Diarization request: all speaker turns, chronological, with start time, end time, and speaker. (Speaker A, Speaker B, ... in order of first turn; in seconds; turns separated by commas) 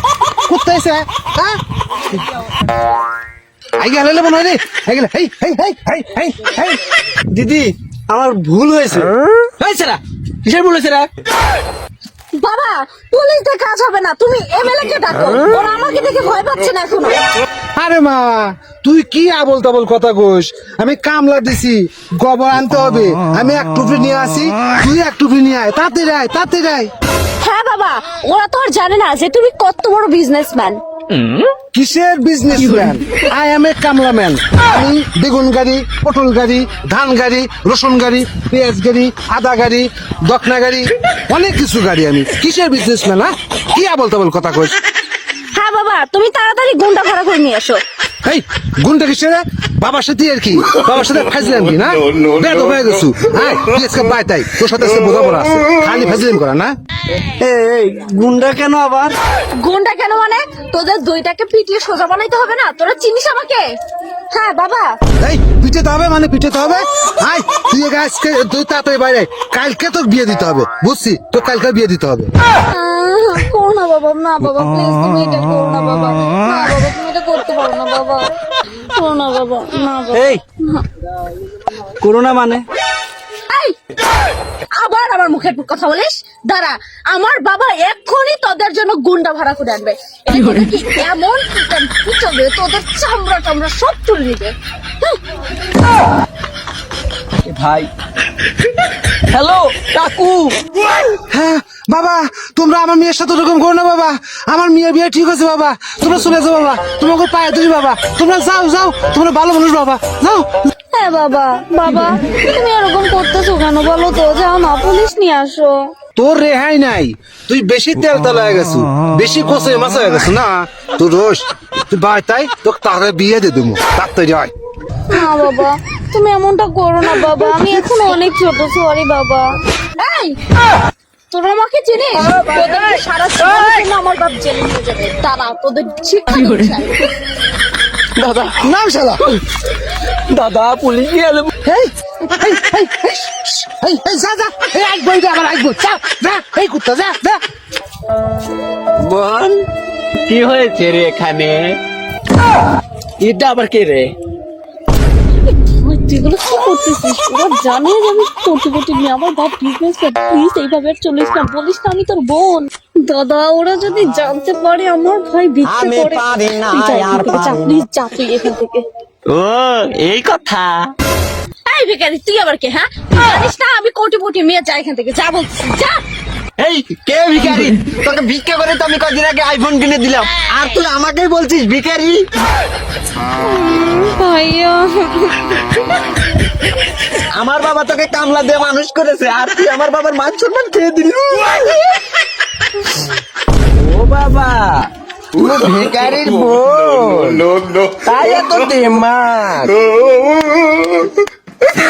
Speaker A: 0.5-1.6, Speaker A: 3.8-6.8, Speaker B: 7.3-9.1, Speaker C: 9.6-11.1, Speaker D: 12.4-17.2, Speaker A: 17.8-26.9, Speaker D: 27.4-30.8, Speaker A: 31.7-44.8, Speaker D: 45.5-47.8, Speaker A: 48.2-56.7, Speaker B: 57.4-59.1, Speaker D: 59.6-63.7, Speaker D: 64.3-65.0, Speaker A: 65.2-72.3, Speaker D: 72.7-78.3, Speaker D: 78.9-80.8, Speaker B: 80.1-80.4, Speaker B: 82.0-82.6, Speaker D: 83.5-83.8, Speaker D: 84.8-95.2, Speaker C: 97.5-97.9, Speaker C: 99.3-100.5, Speaker A: 101.3-110.7, Speaker D: 110.9-115.9, Speaker A: 116.2-124.5, Speaker D: 125.1-130.4, Speaker D: 131.3-137.1, Speaker C: 132.2-133.7, Speaker C: 138.2-138.7, Speaker A: 138.6-139.2, Speaker C: 140.3-141.5, Speaker A: 141.6-147.4, Speaker C: 149.1-149.6, Speaker C: 150.3-151.8, Speaker C: 153.2-154.1, Speaker D: 155.8-168.8, Speaker E: 165.6-167.7, Speaker E: 169.3-170.8, Speaker D: 171.7-176.0, Speaker E: 176.6-182.3, Speaker D: 183.7-185.3, Speaker E: 187.4-191.6, Speaker C: 193.8-194.9, Speaker E: 195.4-197.4, Speaker C: 197.4-199.8